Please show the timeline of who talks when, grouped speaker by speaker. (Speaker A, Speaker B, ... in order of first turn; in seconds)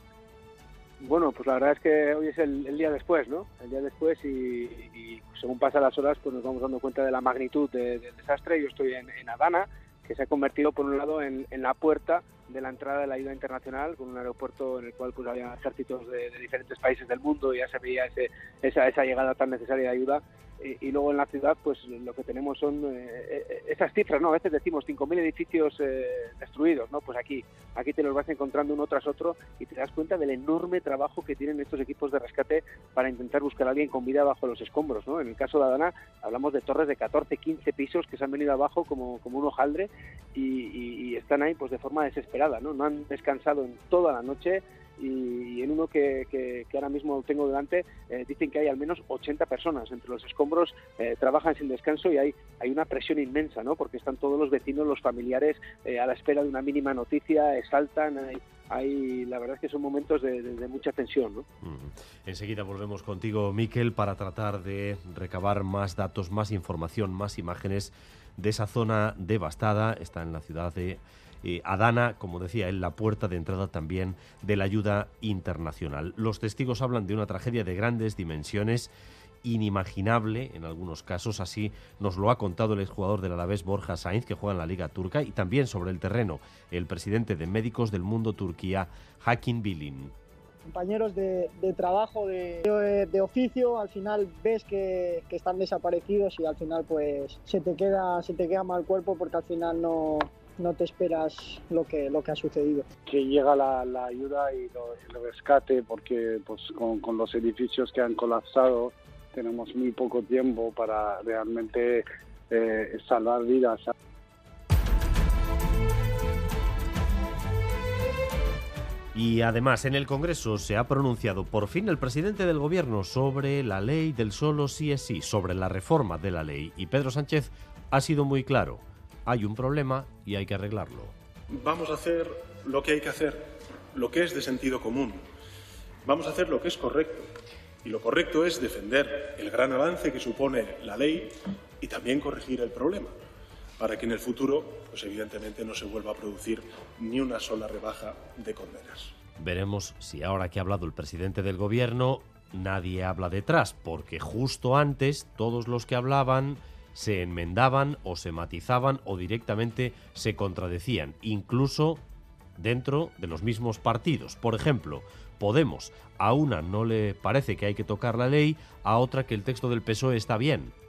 Speaker A: 1.0-61.4
Speaker B: 61.6-78.9, 79.4-90.1, 119.1-131.1, 149.4-162.0, 162.6-170.7
Speaker C: 90.6-102.8
Speaker D: 103.1-113.9
Speaker E: 131.7-133.3, 134.0-135.1, 136.1-137.2, 137.8-141.1, 141.8-143.1, 143.8-149.0